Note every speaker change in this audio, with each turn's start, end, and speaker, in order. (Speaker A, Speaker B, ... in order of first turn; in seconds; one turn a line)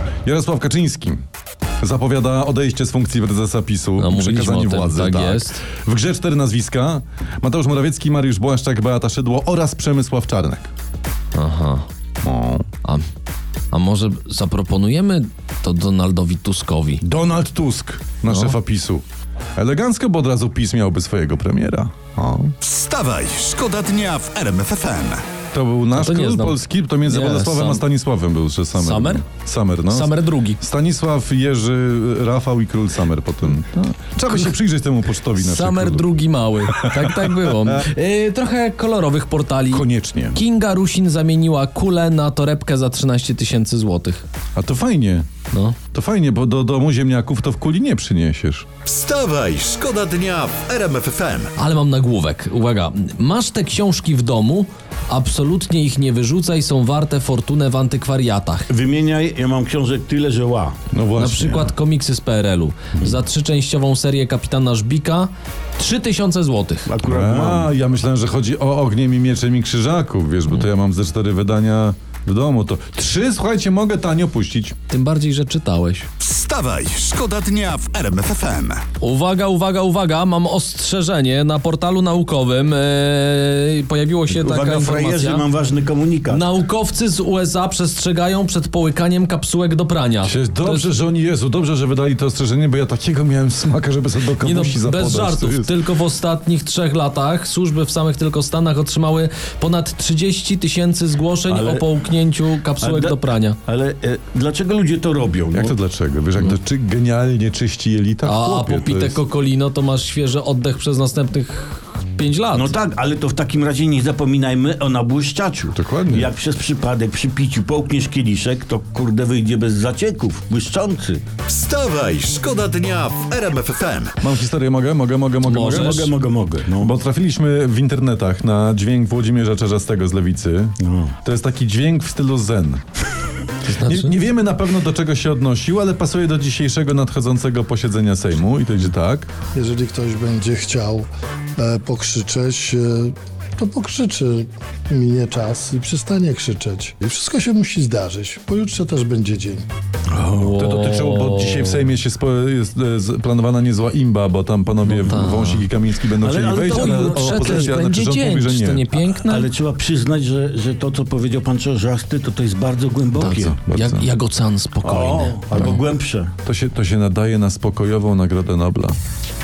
Speaker A: 0.2-1.2
Speaker A: 1.8-10.7
Speaker B: 4.0-5.7
Speaker B: 11.3-11.9
Speaker A: 12.2-12.7
Speaker B: 13.7-17.0
Speaker A: 17.0-19.0
Speaker B: 18.3-18.6
Speaker A: 19.6-22.6
Speaker C: 22.6-25.2
Speaker A: 25.5-36.1
Speaker B: 25.9-27.9
Speaker B: 28.8-29.2
Speaker B: 29.9-30.6
Speaker B: 35.4-44.2
Speaker A: 36.7-37.7
Speaker A: 39.7-40.4
Speaker A: 44.5-45.3
Speaker B: 45.5-45.8
Speaker A: 45.9-48.7
Speaker C: 48.9-51.5
Speaker B: 51.6-58.7
Speaker D: 58.7-60.8
Speaker A: 60.9-61.8
Speaker B: 61.2-66.9
Speaker D: 66.9-67.7
Speaker A: 67.0-74.8
Speaker B: 74.9-76.1
Speaker C: 76.2-78.8
Speaker B: 79.0-85.5
Speaker D: 84.3-86.5
Speaker B: 86.3-90.9
Speaker A: 90.2-95.7
Speaker B: 94.4-103.6
Speaker D: 101.5-101.9
Speaker D: 102.8-105.8
Speaker A: 105.5-109.2
Speaker B: 108.2-112.7
Speaker D: 112.5-121.3
Speaker A: 115.7-116.3
Speaker C: 121.5-124.2
Speaker A: 124.2-126.1
Speaker B: 125.5-126.1
Speaker D: 125.6-126.9
Speaker A: 126.8-132.8
Speaker D: 130.8-131.1
Speaker B: 133.6-134.2
Speaker A: 133.8-139.3
Speaker E: 139.5-149.7
Speaker D: 150.1-150.6
Speaker B: 150.4-151.8
Speaker A: 150.6-158.9
Speaker B: 155.0-155.7
Speaker D: 156.2-157.7
Speaker B: 156.7-159.5
Speaker D: 159.2-163.6
Speaker B: 163.2-165.8
Speaker A: 163.6-164.1
Speaker D: 164.8-166.3
Speaker A: 166.4-169.0